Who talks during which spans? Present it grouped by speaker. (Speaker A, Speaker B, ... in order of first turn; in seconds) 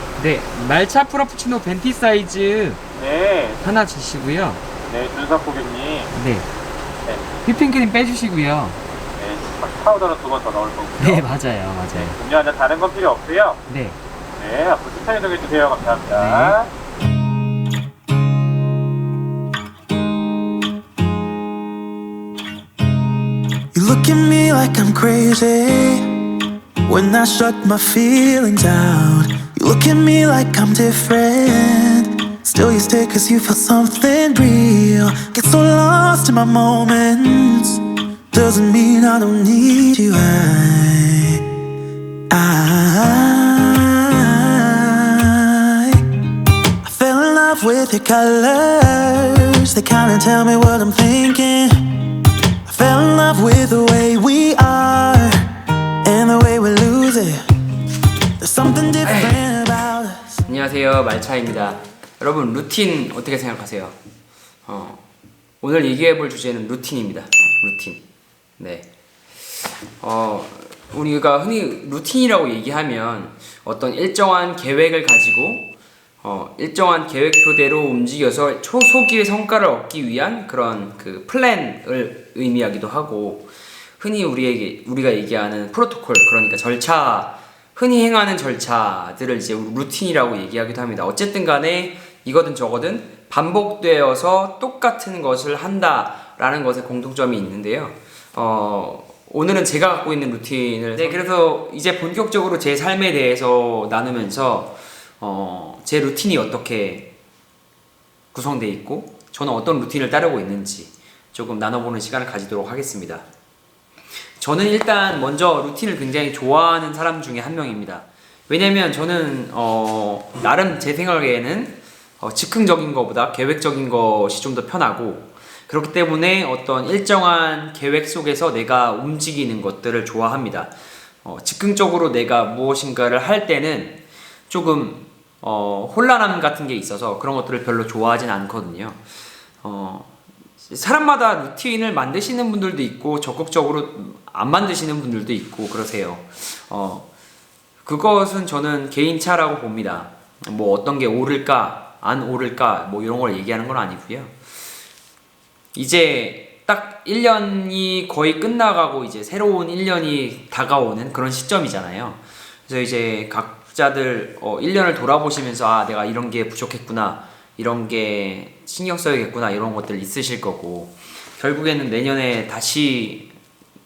Speaker A: 0.2-2.8, 3.6-4.6, 6.1-6.5, 7.4-8.8, 11.0-12.2, 13.7-14.0, 16.1-16.6, 59.0-59.4, 60.5-64.0, 64.7-65.0, 65.6-68.0, 68.6-68.9, 70.0-75.7, 76.2-107.1, 108.3-113.3, 114.4-139.0, 139.6-147.1, 147.8-154.4, 155.7-173.3
Speaker B: 3.0-3.6, 4.9-6.1, 9.2-11.2, 12.2-13.6, 14.3-16.7
Speaker C: 23.7-26.1, 26.9-41.4, 42.3-46.0, 46.8-52.1, 52.7-55.5, 56.0-57.4, 58.4-60.4